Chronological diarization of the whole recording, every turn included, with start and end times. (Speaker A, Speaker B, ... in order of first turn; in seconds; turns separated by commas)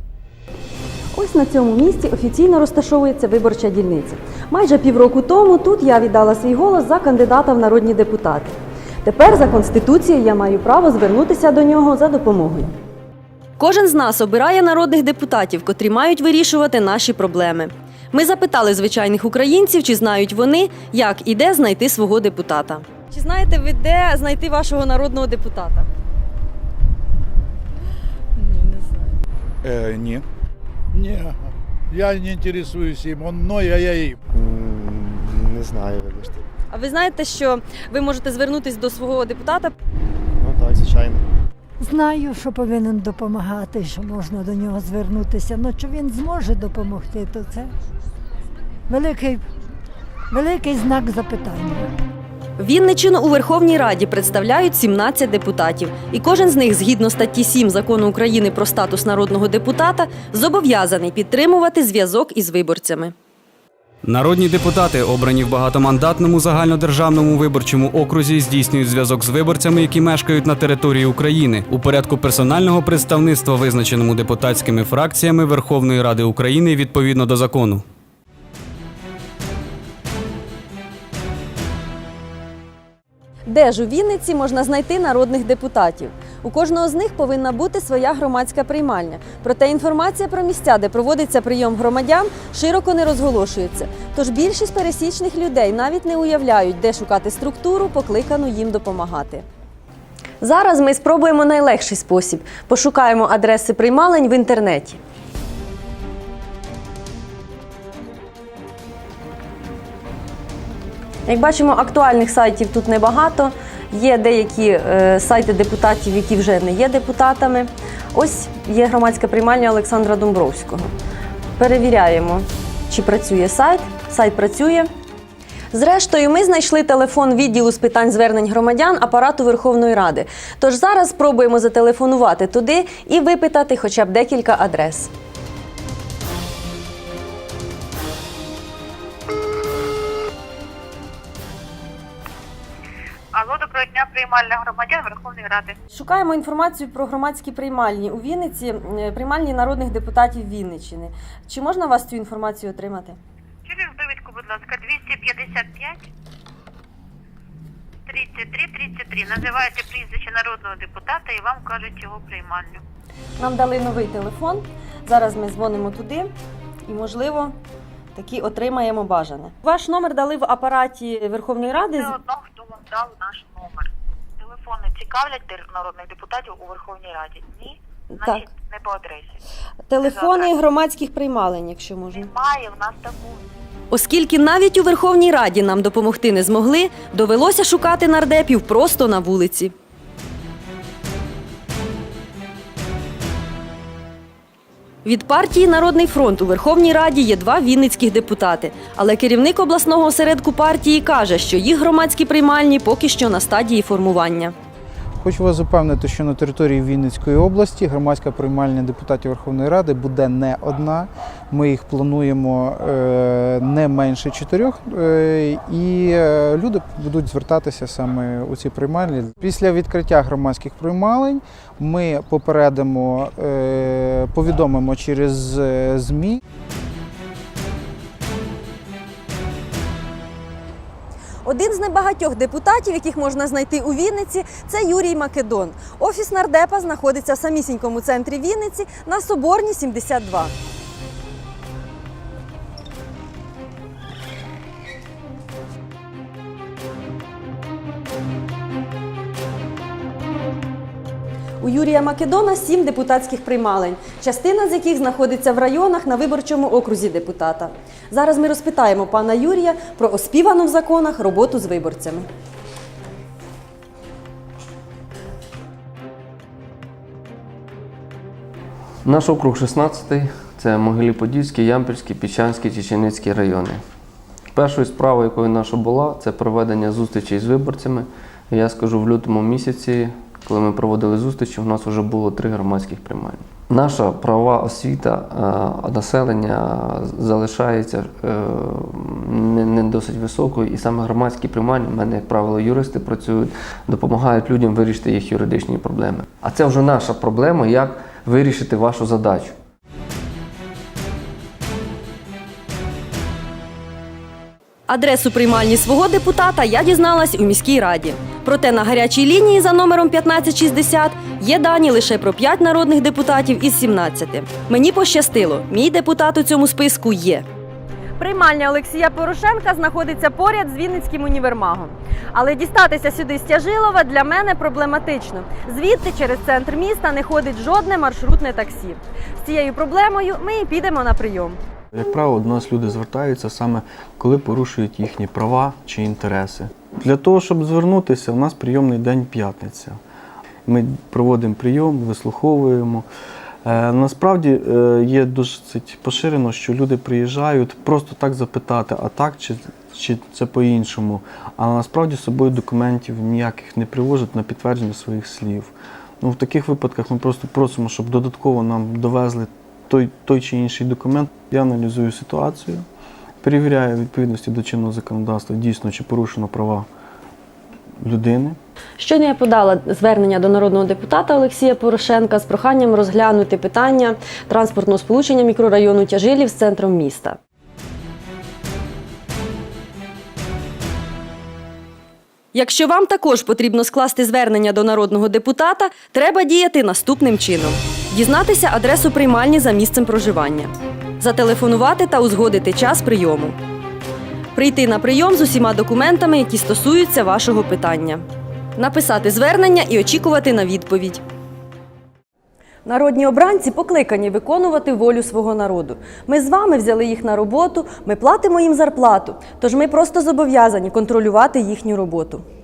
Speaker A: 1.1-12.8, Speaker A: 13.6-25.9, Speaker A: 28.4-29.1, Speaker B: 29.6-30.2, Speaker B: 30.9-31.4, Speaker B: 31.9-34.2, Speaker C: 34.3-36.4, Speaker A: 36.7-39.7, Speaker C: 40.4-41.2, Speaker D: 41.8-47.7, Speaker D: 48.9-49.5, Speaker D: 50.3-51.9, Speaker A: 52.6-63.1, Speaker E: 64.0-77.8, Speaker A: 83.5-99.5, Speaker A: 100.4-105.0, Speaker A: 111.3-120.9, Speaker A: 121.6-124.9, Speaker A: 125.7-135.1, Speaker F: 143.3-145.7, Speaker A: 145.9-153.2, Speaker F: 153.7-156.0, Speaker F: 158.1-162.8, Speaker A: 163.4-166.3, Speaker A: 166.8-167.6, Speaker A: 168.2-172.2, Speaker F: 171.7-173.9, Speaker F: 174.4-179.3, Speaker A: 178.1-178.5, Speaker A: 179.9-182.3, Speaker F: 180.0-180.5, Speaker F: 182.1-183.4, Speaker A: 183.9-189.7, Speaker A: 195.0-204.6, Speaker G: 205.2-226.4, Speaker A: 231.4-240.5, Speaker A: 251.6-262.2, Speaker H: 269.1-273.8, Speaker H: 274.5-299.6, Speaker A: 304.9-317.4, Speaker A: 318.2-331.6, Speaker I: 331.9-340.0, Speaker I: 340.7-343.1, Speaker I: 343.6-362.9, Speaker I: 363.4-366.9, Speaker I: 368.0-368.6, Speaker A: 369.0-377.4, Speaker A: 382.5-393.6, Speaker A: 394.5-398.2, Speaker A: 398.8-401.2, Speaker A: 402.9-412.4